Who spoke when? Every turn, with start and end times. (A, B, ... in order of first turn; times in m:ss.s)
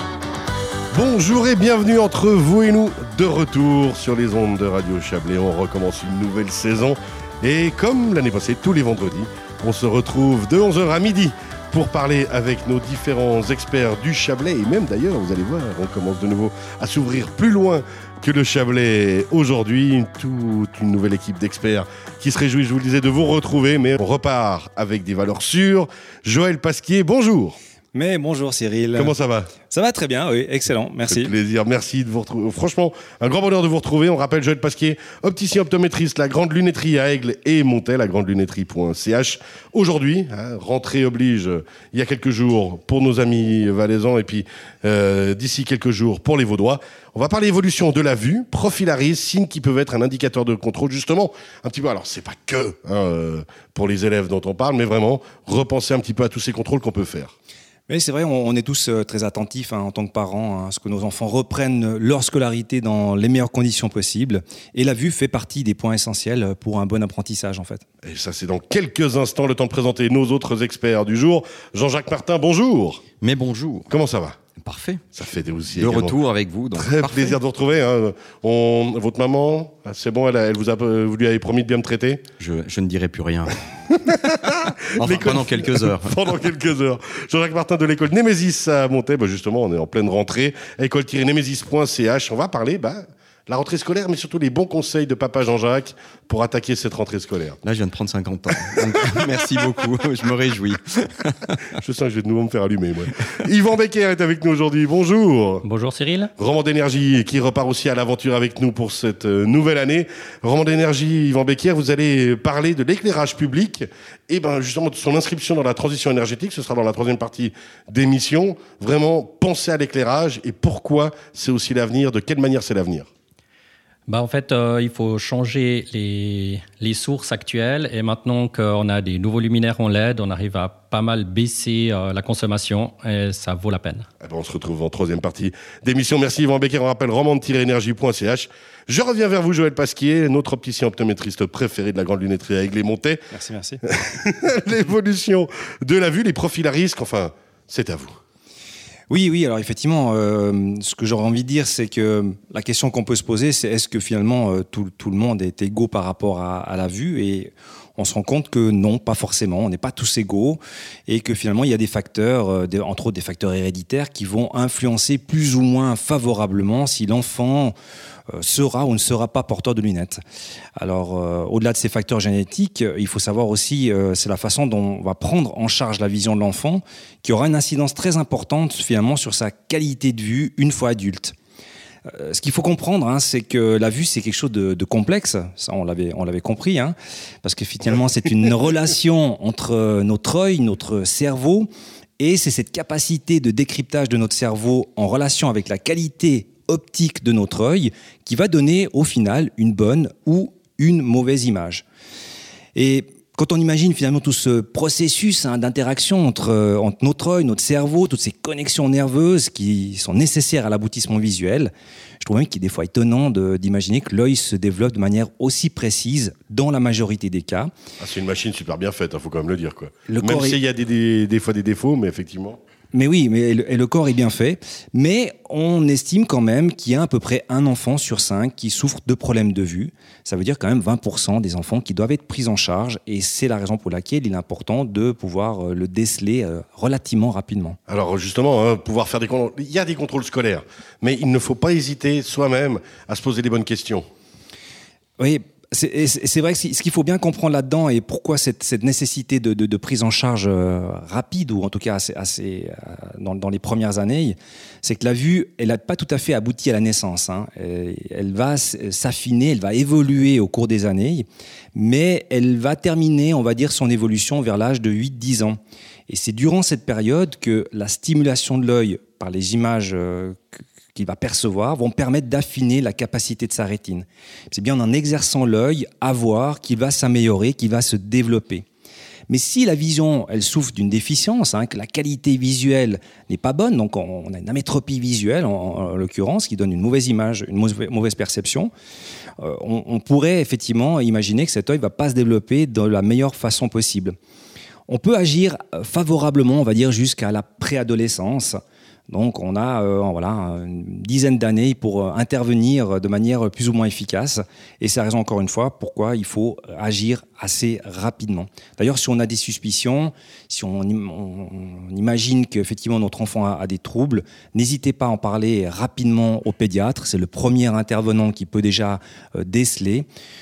0:00.9-0:27.6 A
0:27.9-0:29.1 B
0:29.0-0:29.5 A
0:29.7-0:31.3 B
0:31.1-0:57.3 A
0:57.9-1:07.8 B
1:08.0-1:13.0 A
1:13.2-1:13.9 C
1:13.9-1:14.4 A
1:14.6-1:15.0 C
1:15.2-1:16.2 A
1:15.7-1:17.4 C
1:16.7-1:22.2 A
1:22.4-1:24.2 C
1:24.4-1:37.6 A
1:24.8-1:26.3 C
1:37.6-1:41.7 C
1:41.8-1:45.6 A
1:45.6-1:46.3 D
1:46.4-2:03.1 A
2:04.1-2:14.0 D
2:14.2-2:23.2 A
2:23.3-2:23.8 B
2:23.8-2:28.1 A
2:29.1-2:47.7 B
2:48.3-2:50.2 B
2:50.8-3:01.3 B
3:02.1-3:11.7 B
3:12.2-3:21.8 B
3:22.7-3:37.7 B
3:38.0-3:42.6 A
3:40.1-3:40.6 B
3:42.9-3:57.8 B
3:57.9-4:04.0 A
4:05.2-4:30.4 B
4:30.9-4:38.6 B
4:39.3-4:48.7 B
4:49.4-4:54.1 B
4:54.9-5:20.1 B